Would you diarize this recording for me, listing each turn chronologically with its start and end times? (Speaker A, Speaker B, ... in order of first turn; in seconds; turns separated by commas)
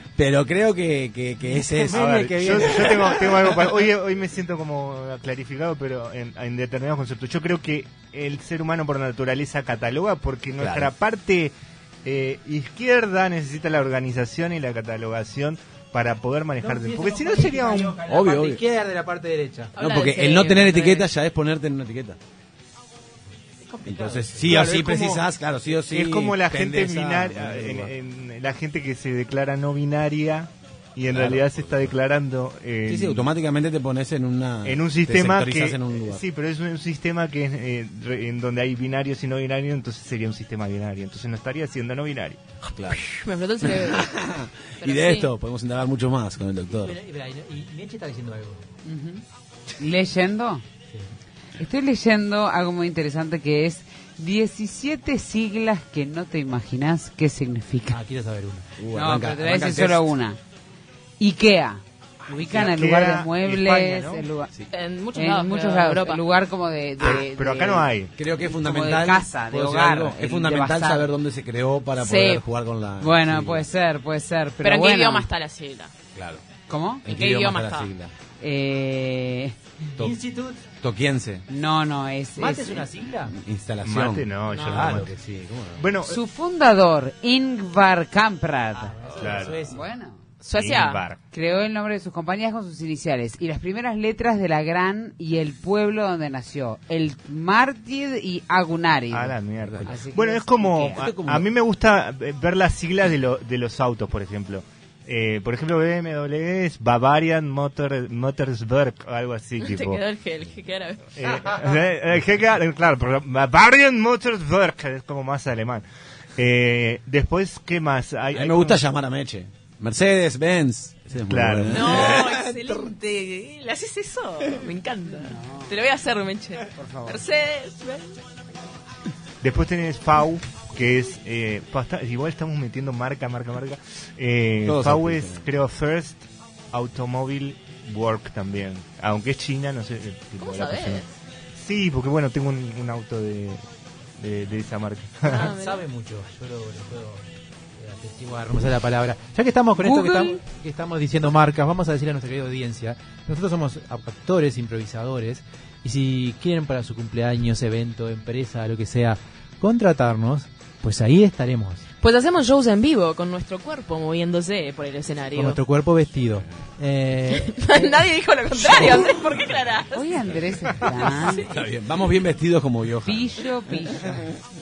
Speaker A: 0.2-3.7, Speaker B: 1.5-3.2, Speaker C: 1.9-18.0, Speaker A: 10.6-10.9, Speaker B: 16.6-19.8, Speaker A: 18.0-18.6, Speaker D: 19.8-21.1, Speaker A: 19.8-22.2, Speaker B: 23.6-24.5, Speaker A: 23.8-27.9, Speaker C: 24.4-25.2, Speaker C: 25.9-33.3, Speaker A: 31.1-31.9, Speaker A: 32.9-36.2, Speaker C: 34.6-42.4, Speaker D: 42.6-44.1, Speaker A: 42.8-43.1, Speaker A: 43.6-47.0, Speaker D: 44.8-45.3, Speaker B: 46.8-48.7, Speaker E: 48.8-49.2, Speaker E: 49.8-50.6, Speaker E: 51.5-58.0, Speaker B: 57.9-58.7, Speaker A: 58.8-60.1, Speaker E: 58.9-60.4, Speaker E: 61.2-64.5, Speaker C: 62.5-64.3, Speaker D: 64.7-66.2, Speaker E: 65.1-71.1, Speaker C: 67.0-68.1, Speaker A: 68.2-73.7, Speaker E: 72.0-72.4, Speaker E: 73.0-75.3, Speaker D: 74.6-75.9, Speaker A: 76.2-76.4, Speaker E: 76.7-77.3, Speaker A: 77.0-78.1, Speaker D: 77.1-77.9, Speaker E: 78.4-79.6, Speaker B: 80.0-80.7, Speaker A: 80.7-81.4, Speaker E: 81.5-82.9, Speaker B: 82.4-83.3, Speaker A: 83.2-85.9, Speaker C: 83.8-85.1, Speaker D: 84.5-85.0, Speaker C: 85.8-86.2, Speaker E: 86.1-90.2, Speaker B: 88.7-89.8, Speaker C: 89.2-89.6, Speaker D: 90.4-91.0, Speaker C: 90.6-91.2, Speaker E: 91.3-101.1, Speaker C: 99.1-110.0, Speaker A: 99.6-100.0, Speaker A: 100.9-101.5, Speaker D: 109.6-111.5, Speaker C: 111.2-115.8, Speaker C: 116.4-118.8, Speaker A: 118.3-122.9, Speaker C: 121.3-121.9, Speaker D: 121.7-128.2, Speaker E: 125.1-125.7, Speaker E: 126.8-127.2, Speaker C: 129.4-143.6, Speaker A: 134.7-135.4, Speaker D: 140.4-141.1, Speaker C: 144.2-145.5, Speaker D: 145.3-145.8, Speaker B: 145.4-147.2, Speaker B: 147.8-161.8, Speaker E: 149.8-150.4, Speaker D: 162.0-165.6, Speaker B: 165.3-167.5, Speaker D: 167.3-171.5, Speaker B: 168.7-169.0, Speaker E: 169.9-171.5, Speaker A: 171.4-173.3, Speaker E: 173.0-174.3